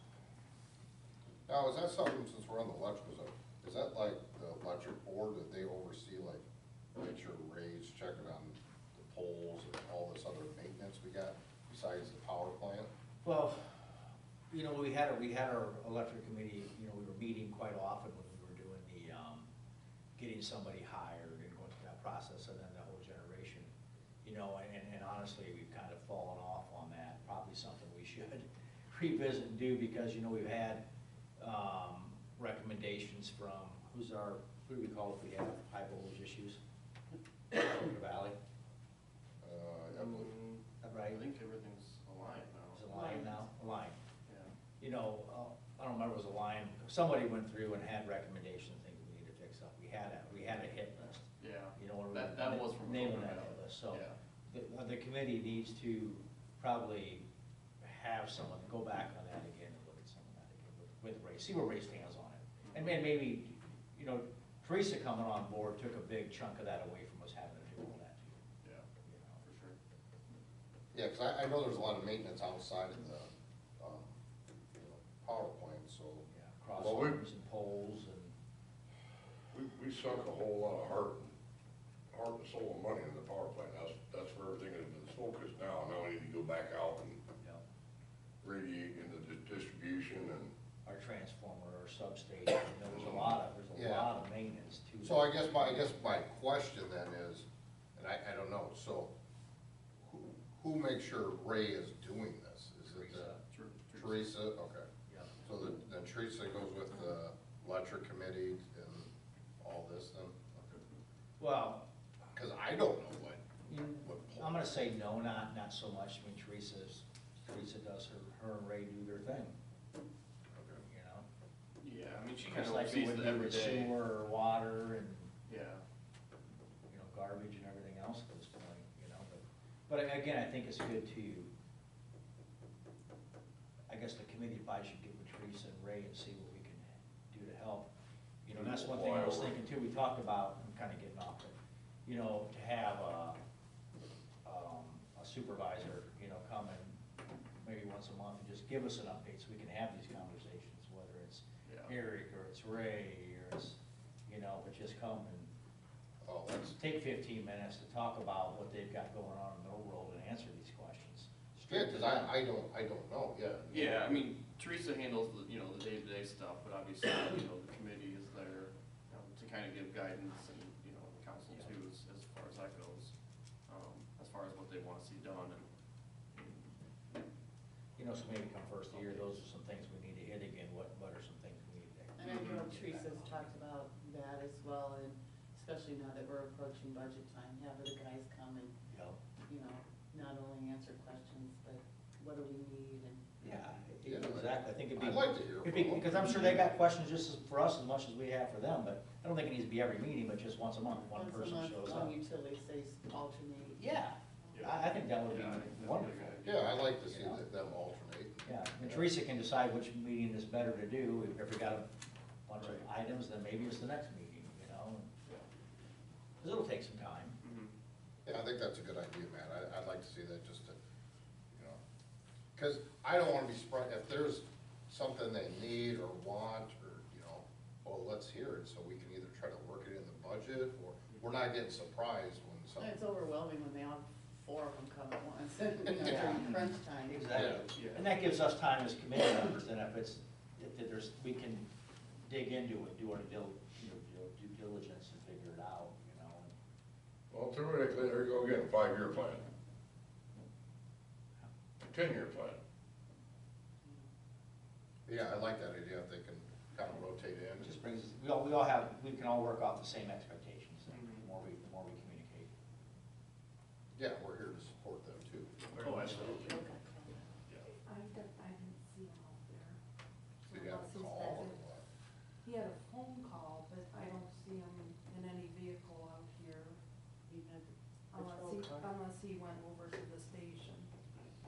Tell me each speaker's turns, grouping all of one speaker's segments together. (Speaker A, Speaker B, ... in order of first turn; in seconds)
Speaker A: 1.5-6.4, 7.0-12.9, 39.4-40.3, 70.9-74.2, 74.7-76.3, 93.8-94.1, 95.0-99.1, 100.1-103.3, 103.9-104.9, 105.4-110.6, 112.3-114.6, 120.5-120.8, 156.2-156.8, 161.7-164.2, 194.0-196.3, 206.4-209.1, 218.2-220.8, 221.5-221.8, 222.6-233.0, 237.3-237.6, 255.1-257.7, 263.9-265.5, 270.5-271.9
Speaker B: 13.2-14.0, 14.5-19.5, 20.2-23.7, 24.2-30.8, 31.4-36.6, 37.5-38.4, 40.8-41.2, 42.7-44.0, 44.8-57.2, 57.8-68.4, 69.0-69.4, 76.3-78.3, 90.8-95.9, 102.9-103.4, 105.1-105.4, 111.4-111.8, 113.7-119.5, 120.9-121.2, 122.4-125.3, 126.9-131.5, 133.9-137.9, 138.4-141.6, 142.1-143.4, 144.4-147.0, 147.6-155.5, 156.7-162.3, 178.0-183.6, 188.9-189.2, 193.4-202.2, 203.8-206.4, 207.0-207.4, 208.4-211.9, 212.5-215.1, 216.4-217.4, 236.0-241.7, 242.2-246.5, 257.6-262.5
Speaker C: 39.9-42.9, 44.3-44.5, 51.4-54.2, 62.6-62.9, 69.4-69.8, 103.5-104.3, 121.8-124.0, 125.5-125.8, 151.7-151.9, 163.7-173.1, 173.7-175.7, 176.3-176.8, 178.9-179.4, 182.2-182.7, 204.5-206.9, 217.4-217.7, 237.7-238.1, 260.9-261.2, 265.7-266.6
Speaker D: 42.9-43.5, 182.2-188.8, 189.4-193.5, 201.1-203.9, 232.8-237.7, 266.2-267.4, 277.3-278.9
Speaker E: 76.8-77.2, 79.5-81.3, 82.1-87.2, 88.4-90.5, 138.5-139.5, 247.3-249.5, 251.8-252.6
Speaker F: 267.8-269.8, 270.4-271.6, 272.4-276.8, 278.1-280.9